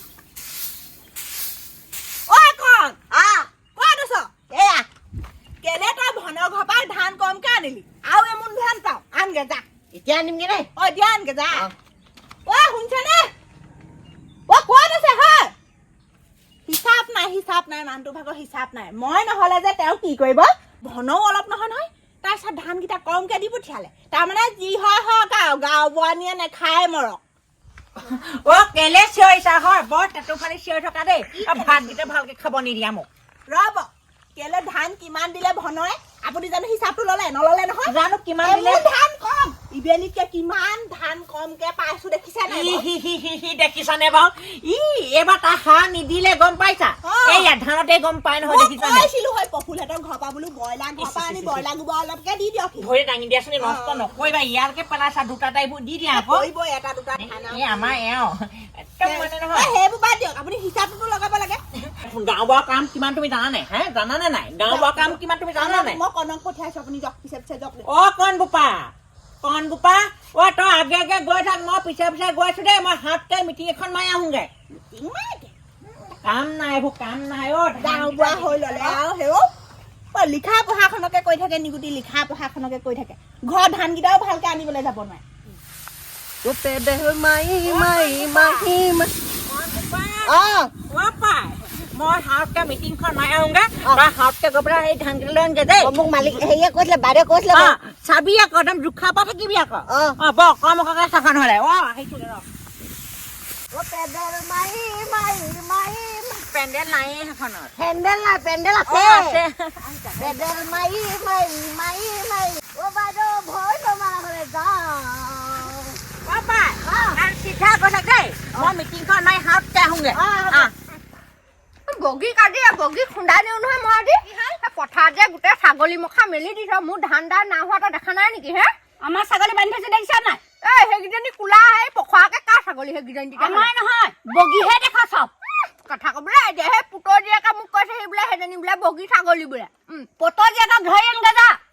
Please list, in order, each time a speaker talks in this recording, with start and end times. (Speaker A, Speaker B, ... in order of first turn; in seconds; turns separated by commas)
Speaker A: 2.3-3.1, Speaker B: 3.1-3.5, Speaker A: 3.7-4.4, Speaker B: 4.5-4.8, Speaker A: 5.6-9.6, Speaker B: 9.9-10.7, Speaker A: 10.8-11.7, Speaker A: 12.4-13.3, Speaker A: 14.5-15.5, Speaker A: 16.7-27.2, Speaker C: 28.0-33.1, Speaker A: 31.4-32.0, Speaker A: 33.5-42.8, Speaker C: 37.8-38.9, Speaker C: 42.5-49.1, Speaker A: 47.0-47.5, Speaker A: 48.4-52.9, Speaker C: 51.0-51.6, Speaker C: 52.8-56.5, Speaker A: 53.6-54.1, Speaker A: 56.1-58.0, Speaker C: 57.2-59.7, Speaker A: 59.0-61.6, Speaker C: 61.8-66.0, Speaker A: 64.6-67.8, Speaker C: 67.8-68.9, Speaker C: 69.4-74.5, Speaker A: 74.9-75.5, Speaker C: 76.2-78.4, Speaker A: 77.8-79.5, Speaker B: 78.4-79.0, Speaker A: 80.1-85.2, Speaker B: 86.4-89.1, Speaker C: 87.7-88.7, Speaker C: 89.5-96.4, Speaker B: 90.2-90.7, Speaker B: 95.8-97.8, Speaker C: 97.5-102.4, Speaker B: 99.9-100.2, Speaker B: 103.7-106.4, Speaker C: 106.4-107.7, Speaker B: 107.8-109.4, Speaker C: 108.8-110.4, Speaker B: 110.2-116.0, Speaker C: 116.2-120.7, Speaker B: 116.8-117.2, Speaker B: 120.1-120.7, Speaker D: 121.9-128.7, Speaker E: 124.2-124.5, Speaker E: 129.0-130.4, Speaker D: 130.6-133.7, Speaker E: 133.4-135.3, Speaker D: 134.4-134.7, Speaker D: 135.8-140.2, Speaker E: 140.2-141.6